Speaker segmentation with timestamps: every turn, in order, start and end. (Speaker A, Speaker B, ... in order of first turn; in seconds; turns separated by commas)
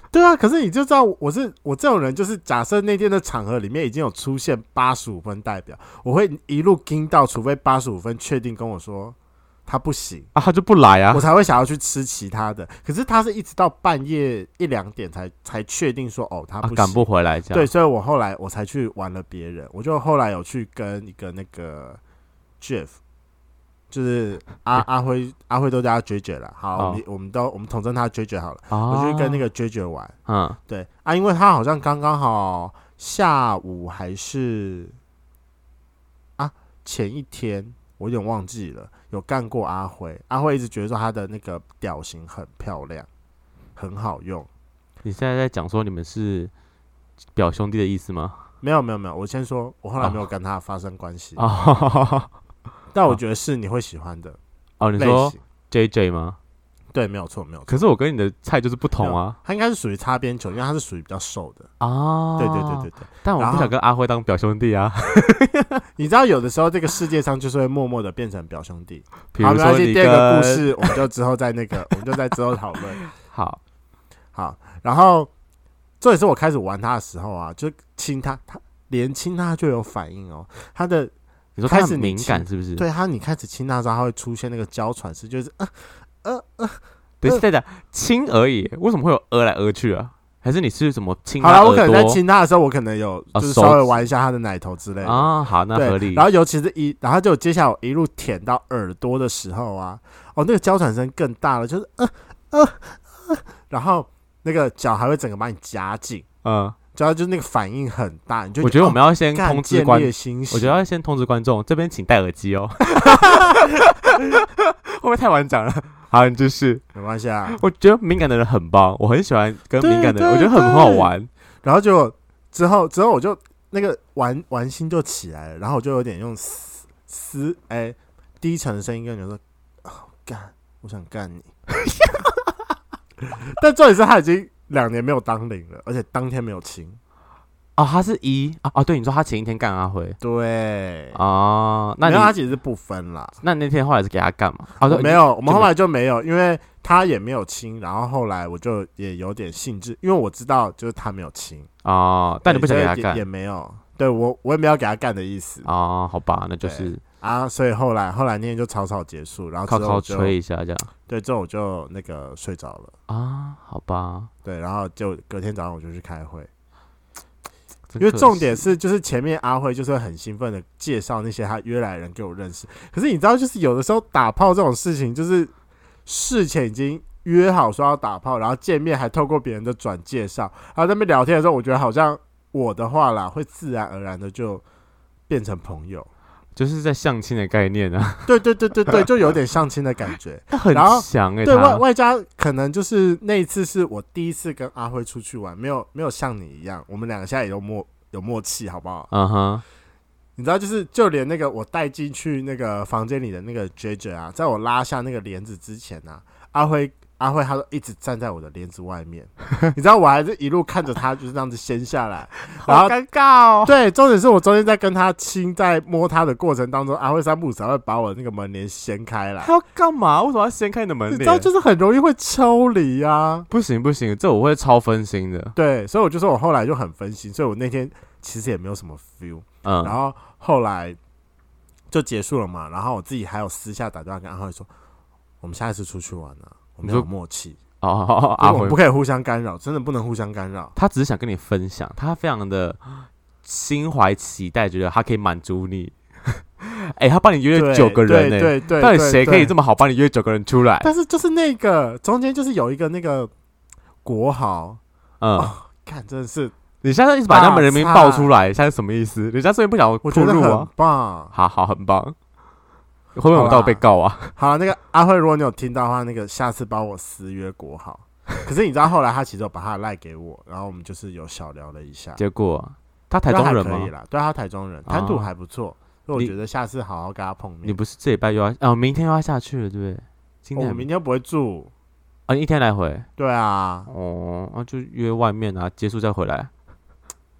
Speaker A: 0.1-9.2, Speaker A: 9.7-10.3, Speaker B: 10.3-11.2, Speaker A: 11.1-22.0, Speaker B: 16.6-17.7, Speaker A: 22.6-23.0, Speaker A: 23.9-30.1, Speaker B: 26.8-27.0, Speaker B: 28.7-29.4, Speaker B: 30.3-30.6, Speaker A: 30.7-34.9, Speaker A: 36.4-43.1, Speaker A: 43.8-44.5, Speaker B: 45.0-46.5, Speaker B: 47.4-48.4, Speaker A: 48.6-51.4, Speaker B: 51.4-52.3, Speaker A: 52.9-54.4, Speaker B: 54.8-56.4, Speaker A: 55.0-55.4, Speaker A: 56.9-57.7, Speaker B: 57.7-59.4, Speaker A: 59.0-61.7, Speaker B: 61.8-65.8, Speaker A: 62.4-63.7, Speaker A: 66.0-73.0, Speaker B: 69.3-71.0, Speaker B: 73.2-73.6, Speaker A: 74.3-75.3, Speaker A: 76.0-81.1, Speaker B: 81.5-82.8, Speaker A: 81.7-87.4, Speaker B: 87.2-92.2, Speaker A: 91.4-106.2, Speaker B: 93.3-93.9, Speaker B: 95.0-96.2, Speaker B: 106.4-106.8, Speaker A: 106.9-110.8, Speaker B: 108.6-116.8, Speaker A: 113.0-113.6, Speaker A: 116.9-117.6, Speaker B: 117.5-121.3, Speaker A: 119.8-121.1, Speaker A: 121.6-131.5, Speaker A: 133.2-137.0, Speaker B: 137.8-140.2, Speaker A: 140.2-141.2, Speaker B: 141.1-142.3, Speaker A: 142.0-143.4, Speaker B: 143.4-145.7, Speaker A: 144.8-151.7, Speaker B: 151.8-153.2, Speaker A: 152.4-155.7, Speaker B: 155.6-157.0, Speaker A: 156.6-160.3, Speaker B: 159.7-160.9, Speaker A: 161.1-162.9, Speaker B: 163.1-164.3, Speaker A: 164.4-166.5, Speaker B: 167.9-168.6, Speaker A: 168.0-175.5, Speaker A: 176.1-184.6, Speaker A: 185.3-186.1, Speaker B: 186.6-188.3, Speaker A: 188.2-199.1, Speaker B: 190.5-191.8, Speaker B: 199.1-199.6, Speaker A: 200.4-212.9, Speaker B: 212.6-213.7, Speaker A: 213.6-219.5, Speaker B: 219.4-221.5, Speaker A: 221.1-223.5, Speaker B: 223.5-225.6, Speaker A: 225.6-231.0, Speaker B: 229.6-229.9, Speaker A: 231.9-234.7, Speaker A: 235.4-237.6, Speaker B: 237.8-238.8, Speaker A: 238.4-240.7, Speaker B: 240.8-250.9, Speaker A: 247.5-249.5, Speaker A: 250.8-253.3, Speaker A: 254.0-254.8, Speaker B: 255.2-255.5, Speaker A: 255.4-256.5, Speaker B: 256.8-260.7, Speaker A: 257.3-258.3, Speaker A: 260.0-261.3, Speaker B: 261.3-262.1, Speaker B: 263.1-264.3, Speaker A: 263.3-263.8, Speaker A: 264.4-272.2, Speaker B: 272.2-273.9, Speaker A: 273.3-277.8, Speaker B: 274.9-275.3, Speaker B: 277.6-280.9, Speaker A: 280.6-281.7, Speaker B: 282.3-283.1, Speaker A: 283.2-283.9, Speaker B: 283.9-286.5